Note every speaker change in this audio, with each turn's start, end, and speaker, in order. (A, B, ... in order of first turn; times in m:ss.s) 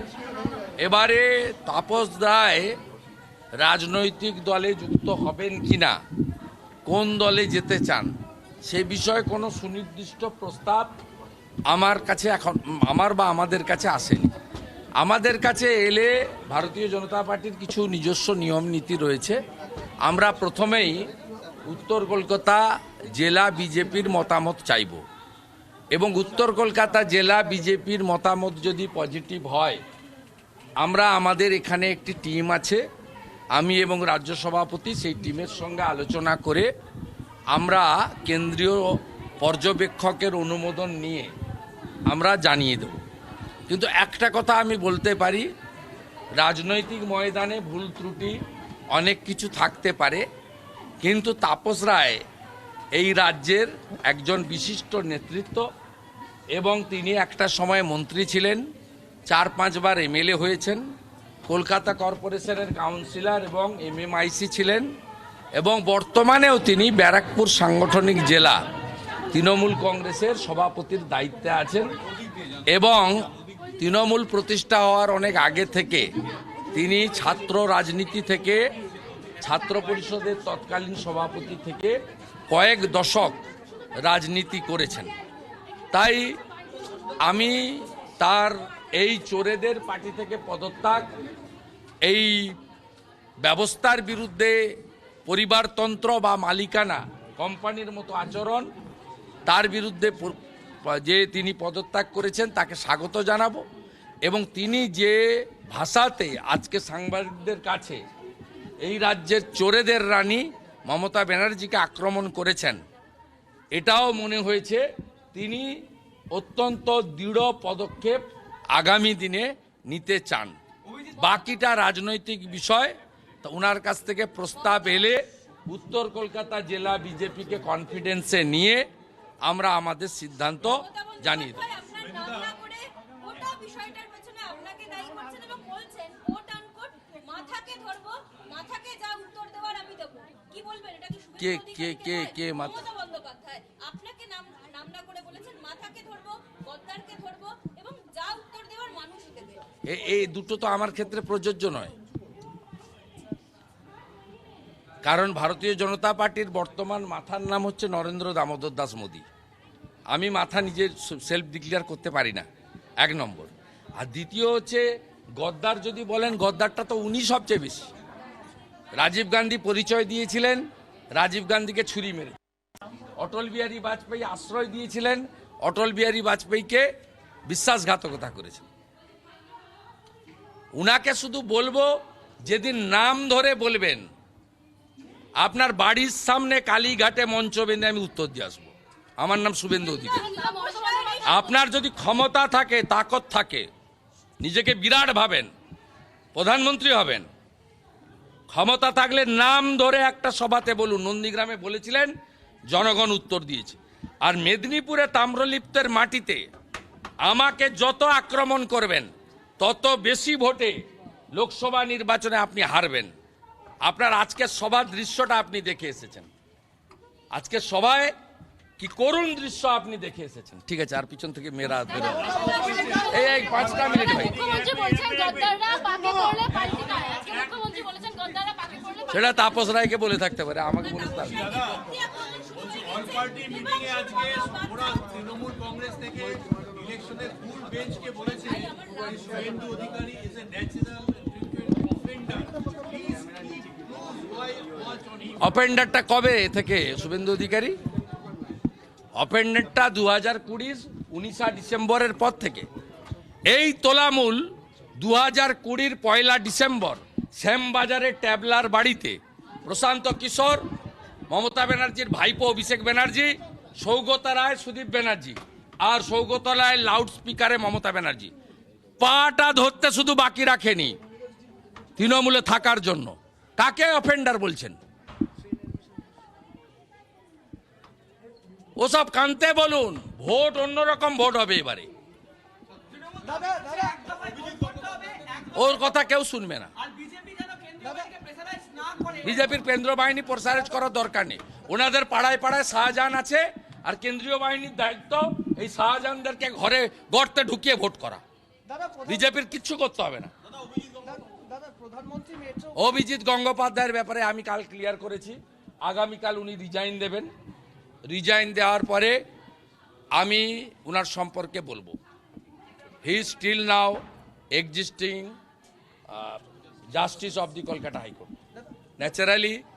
0:00.8-0:02.8 A
0:03.6-0:06.0 A
0:06.8-0:08.1 A
0:08.6-0:10.9 A
0:11.7-0:14.3 A
0:15.0-0:19.4 A
0:20.0-0:21.1 A
0:21.7-0:25.0 A
0:25.9-0:29.8 A
0:30.8-0:32.8 A
0:33.5-0:36.7 A
0:37.5-0:41.3 A
0:42.1-0:43.0 A
0:43.7-0:45.5 A
0:46.4-0:48.4 A
0:48.9-0:50.2 A
0:51.0-0:52.2 A
0:52.9-0:55.7 A
0:56.5-0:58.6 A
0:59.3-1:00.9 A
1:01.4-1:04.9 A
1:05.6-1:08.6 A
1:09.3-1:11.9 A
1:12.7-1:16.1 A
1:16.7-1:18.6 A
1:19.4-1:22.0 A
1:22.5-1:23.4 A
1:24.0-1:25.1 A
1:25.9-1:26.4 A
1:27.2-1:31.1 A
1:32.0-1:32.6 A
1:33.4-1:38.7 A
1:39.4-1:43.6 A
1:44.2-1:48.0 A
1:48.8-1:52.8 A
1:53.7-1:55.7 A
1:56.3-2:00.6 A
2:01.1-2:08.8 A
2:09.4-2:11.7 A
2:10.7-2:29.6 B
2:21.4-2:22.8 A
2:29.8-2:31.9 A
2:35.0-2:39.2 A
2:40.1-2:42.4 A
2:43.0-2:44.8 A
2:45.4-2:47.9 A
2:49.0-2:52.4 A
2:53.2-2:56.9 A
2:57.5-2:58.6 A
3:00.8-3:01.9 A
3:02.4-3:04.1 A
3:05.4-3:10.3 A
3:10.0-3:11.5 B
3:10.0-3:11.1 C
3:11.2-3:13.7 A
3:14.4-3:15.5 A
3:16.3-3:17.3 A
3:18.5-3:22.1 A
3:22.7-3:26.4 A
3:27.2-3:30.8 A
3:31.3-3:33.1 A
3:33.8-3:36.3 A
3:37.3-3:38.1 A
3:38.8-3:44.6 A
3:42.3-3:43.0 B
3:42.9-3:49.4 C
3:49.1-3:51.6 A
3:50.8-3:56.3 B
3:56.0-3:58.0 D
3:58.0-4:00.0 B
3:59.9-4:02.5 D
4:02.4-4:03.2 E
4:03.2-4:05.2 D
4:05.4-4:07.8 A
4:09.1-4:12.7 A
4:13.5-4:20.6 A
4:21.3-4:28.3 A
4:29.0-4:31.0 A
4:32.0-4:34.8 A
4:38.8-4:41.9 A
4:43.2-4:44.8 E
4:45.4-4:46.7 A
4:47.7-4:48.2 E
4:48.4-4:48.7 C
4:49.1-4:58.2 A
4:58.7-4:59.0 E
4:59.0-5:00.3 A
5:01.0-5:02.7 E
5:02.7-5:07.3 A
5:08.1-5:09.2 A
5:10.2-5:12.0 A
5:13.0-5:14.0 A
5:14.5-5:15.3 A
5:16.1-5:16.4 A
5:16.9-5:18.3 A
5:19.0-5:19.6 A